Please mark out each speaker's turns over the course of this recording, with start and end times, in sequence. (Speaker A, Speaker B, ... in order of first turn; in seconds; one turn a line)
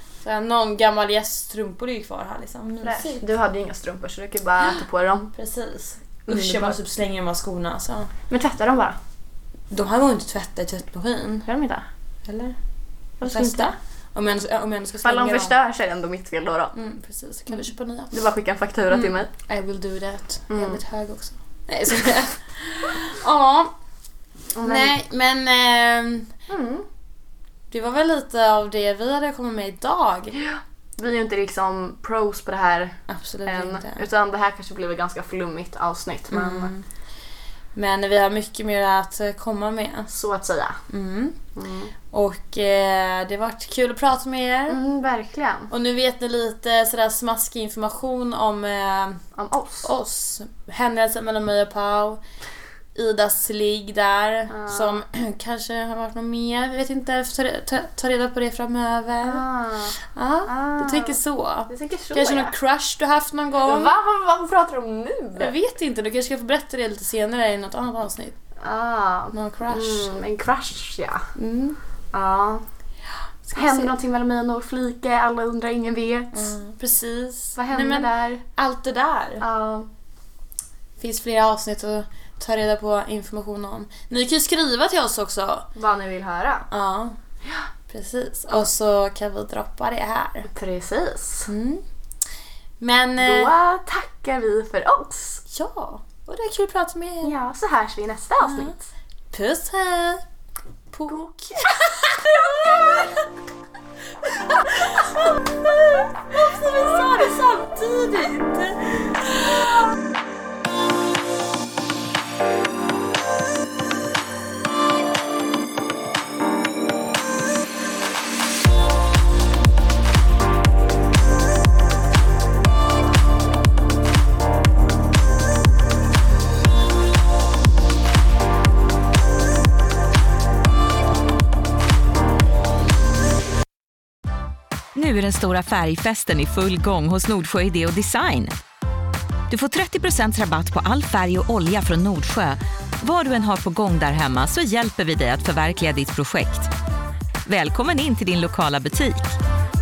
Speaker A: 0.2-3.3
Speaker B: 2.8-5.3
Speaker A: 5.3-8.1
Speaker B: 6.3-6.8
Speaker B: 8.3-9.0
Speaker A: 9.7-11.5
Speaker B: 11.4-11.9
Speaker A: 12.2-12.6
Speaker B: 13.2-13.7
Speaker A: 13.2-15.6
Speaker B: 15.0-16.7
Speaker A: 16.7-18.1
Speaker B: 17.5-19.3
Speaker A: 18.9-23.7
Speaker B: 20.5-20.8
Speaker B: 24.6-24.9
Speaker A: 24.6-26.3
Speaker B: 26.5-26.9
Speaker A: 27.7-30.4
Speaker B: 30.3-36.7
Speaker A: 33.1-34.0
Speaker A: 36.3-36.8
Speaker A: 37.7-40.1
Speaker B: 40.1-40.8
Speaker A: 40.9-41.4
Speaker B: 41.5-41.9
Speaker A: 42.1-44.8
Speaker B: 44.7-45.7
Speaker A: 45.7-49.2
Speaker B: 49.3-49.9
Speaker A: 49.8-52.2
Speaker A: 53.0-59.5
Speaker B: 54.5-55.0
Speaker B: 59.2-62.5
Speaker A: 60.0-63.9
Speaker B: 63.6-65.5
Speaker A: 65.4-68.4
Speaker B: 68.6-71.3
Speaker A: 69.3-70.1
Speaker A: 71.4-71.8
Speaker B: 72.1-72.6
Speaker A: 73.5-73.9
Speaker B: 73.5-76.6
Speaker A: 76.3-79.4
Speaker B: 77.5-78.4
Speaker B: 79.4-79.9
Speaker A: 81.0-85.7
Speaker B: 85.7-86.7
Speaker A: 86.7-87.2
Speaker A: 87.9-90.5
Speaker B: 90.5-91.5
Speaker A: 91.5-91.8
Speaker A: 92.8-93.5
Speaker B: 93.2-95.4
Speaker A: 95.5-97.3
Speaker B: 97.2-98.8
Speaker A: 98.4-98.7
Speaker A: 99.3-100.2
Speaker A: 100.9-103.2
Speaker B: 101.1-103.2
Speaker A: 104.2-109.8
Speaker C: 134.9-138.5
Speaker C: 139.5-146.7
Speaker C: 147.4-149.4